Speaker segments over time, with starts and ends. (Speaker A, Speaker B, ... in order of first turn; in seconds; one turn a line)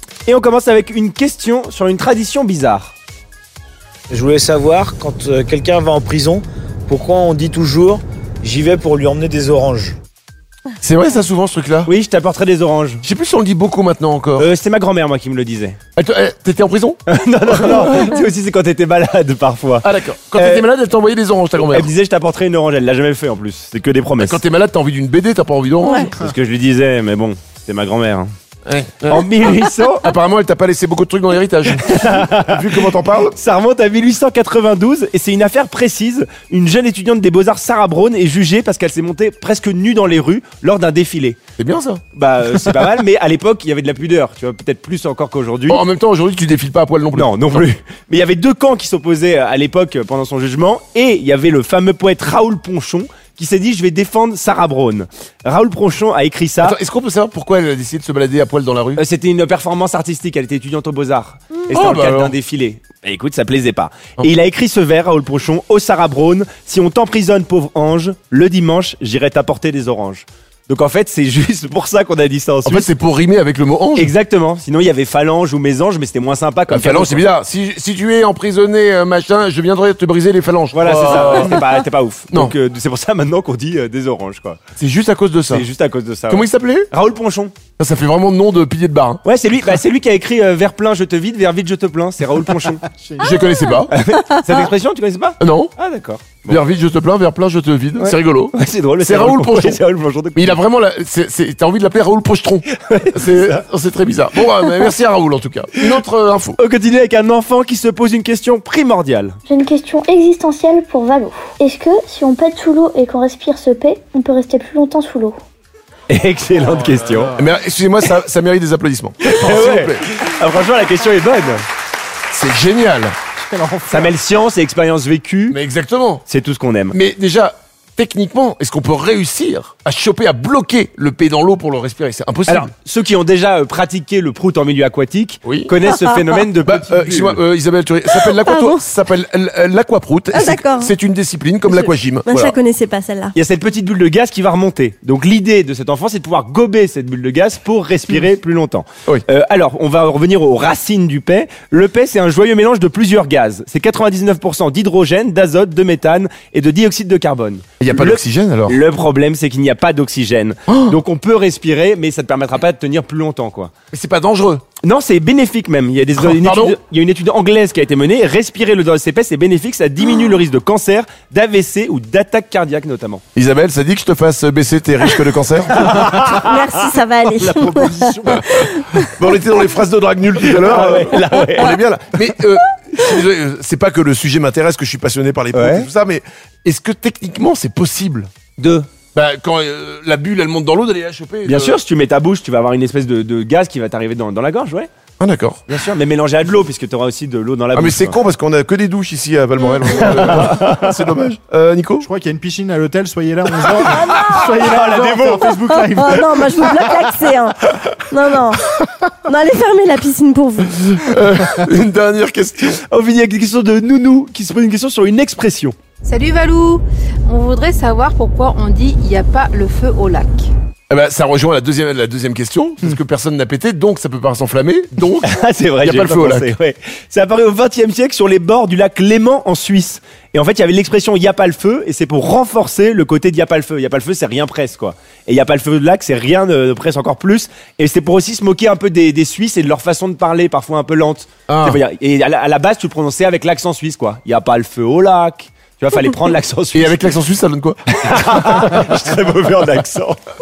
Speaker A: 0.3-3.0
Speaker B: 4.1-10.0
Speaker C: 10.8-11.9
Speaker A: 11.8-13.0
Speaker C: 13.0-14.5
Speaker A: 14.4-15.8
Speaker C: 16.0-18.2
Speaker A: 17.1-20.7
Speaker C: 19.8-21.9
Speaker A: 21.6-24.4
Speaker C: 24.2-26.1
Speaker A: 26.0-28.3
Speaker C: 28.7-33.4
Speaker A: 29.1-30.1
Speaker A: 31.8-41.4
Speaker C: 41.6-42.0
Speaker A: 42.1-45.8
Speaker C: 45.7-47.6
Speaker A: 47.1-56.8
Speaker C: 56.6-59.0
Speaker A: 59.0-72.9
Speaker C: 61.7-62.4
Speaker C: 72.6-74.1
Speaker A: 74.0-77.3
Speaker C: 76.7-81.6
Speaker A: 80.7-84.6
Speaker C: 84.8-85.7
Speaker A: 85.5-87.5
Speaker C: 86.3-86.9
Speaker C: 87.8-89.2
Speaker A: 89.2-92.8
Speaker D: 93.0-93.3
Speaker C: 93.2-93.9
Speaker A: 93.9-96.6
Speaker C: 95.4-95.7
Speaker C: 96.5-99.8
Speaker A: 98.0-100.6
Speaker C: 100.3-106.6
Speaker A: 102.8-103.6
Speaker A: 104.4-104.9
Speaker A: 106.6-109.4
Speaker E: 109.5-115.4
Speaker A: 116.1-117.4
Speaker C: 117.3-120.0
Speaker A: 119.2-121.6
Speaker C: 122.3-123.1
Speaker D: 123.5-124.1
Speaker A: 123.9-125.6
Speaker C: 125.5-126.2
Speaker A: 126.3-127.0
Speaker C: 126.9-132.7
Speaker A: 132.5-137.4
Speaker C: 135.4-135.7
Speaker C: 136.7-142.6
Speaker F: 138.2-138.9
Speaker F: 140.3-140.9
Speaker F: 142.2-143.3
Speaker A: 143.3-163.7
Speaker C: 157.8-158.8
Speaker C: 160.7-161.0
Speaker C: 163.9-164.7
Speaker A: 164.8-173.2
Speaker C: 166.2-166.8
Speaker C: 173.3-175.9
Speaker A: 175.7-176.7
Speaker F: 176.3-179.0
Speaker D: 177.4-178.4
Speaker C: 178.9-188.3
Speaker A: 180.5-181.8
Speaker A: 185.5-185.9
Speaker A: 188.6-188.9
Speaker C: 189.1-191.8
Speaker A: 191.5-194.9
Speaker C: 195.2-195.6
Speaker A: 195.7-198.2
Speaker C: 197.7-202.1
Speaker A: 199.9-201.0
Speaker D: 202.0-206.8
Speaker F: 203.8-204.5
Speaker A: 204.2-205.6
Speaker F: 205.7-210.8
Speaker C: 210.8-212.7
Speaker A: 212.7-215.8
Speaker G: 216.0-220.5
Speaker C: 220.9-225.3
Speaker A: 225.2-247.1
Speaker C: 225.8-226.5
Speaker C: 241.5-241.8
Speaker C: 246.7-247.8
Speaker A: 247.9-250.2